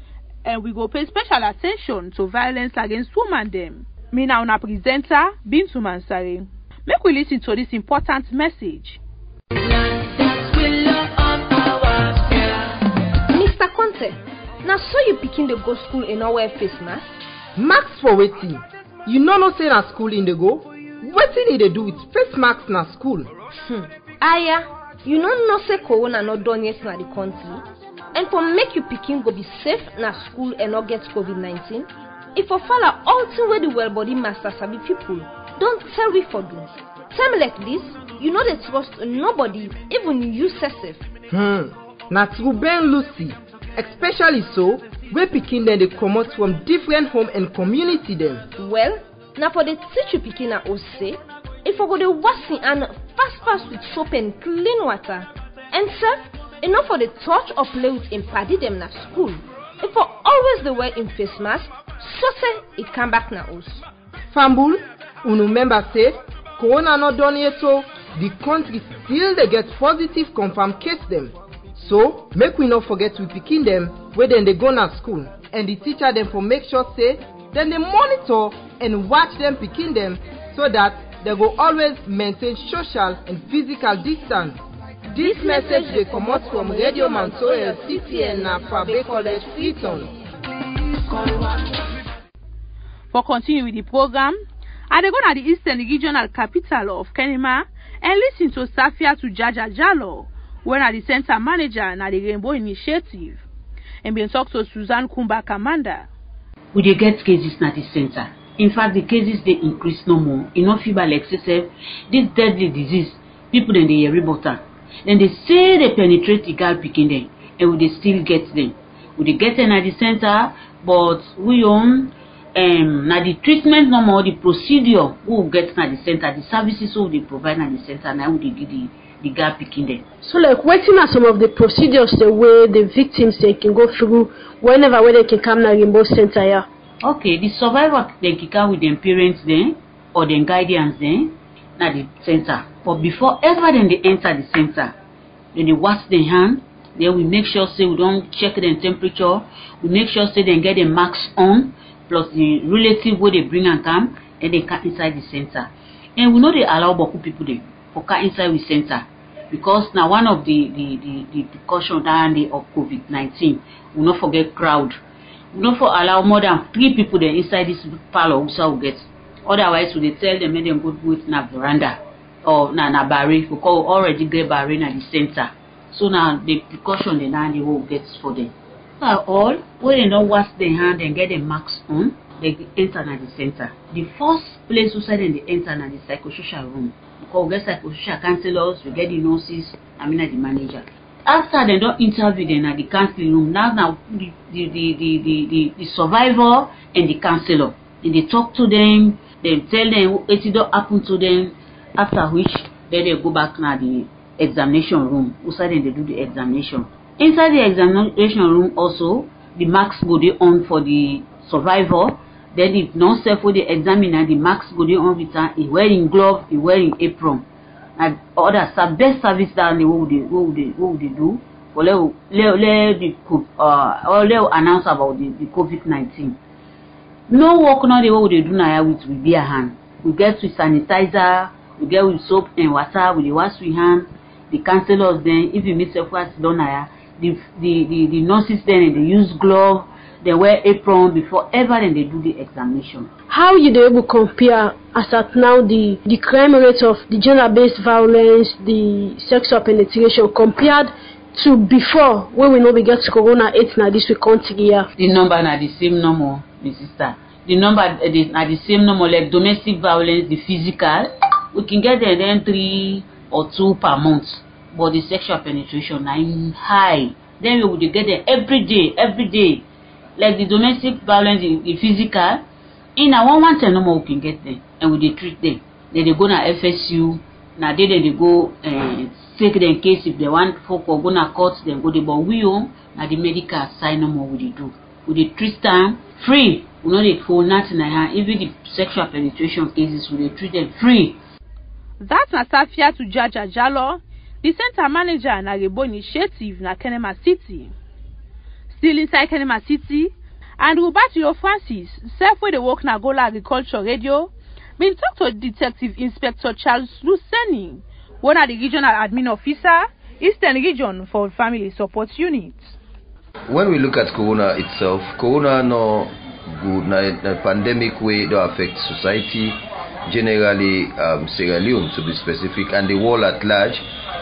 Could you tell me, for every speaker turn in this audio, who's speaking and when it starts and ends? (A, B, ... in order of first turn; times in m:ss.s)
0:00.4-0:09.0 A
0:09.8-0:12.4 B
0:13.3-0:17.2 B
0:17.6-0:23.3 C
0:23.6-0:41.1 B
0:41.3-0:48.5 C
0:48.6-1:03.8 B
1:04.3-1:30.1 C
1:25.1-1:30.1 B
1:33.1-1:34.4 A
1:34.9-1:43.4 A
1:44.0-1:46.1 A
1:46.7-2:10.0 D
2:10.2-2:16.7 E
2:17.0-2:25.0 D
2:25.5-2:45.0 D
2:45.5-3:37.4 D
3:38.0-3:46.4 D
3:47.3-4:03.1 D
4:03.3-4:14.9 E
4:15.0-4:29.6 D
4:30.2-4:32.4 D
4:33.0-4:51.2 D
4:52.0-4:57.7 A
4:58.7-5:12.8 A
5:13.5-5:23.8 F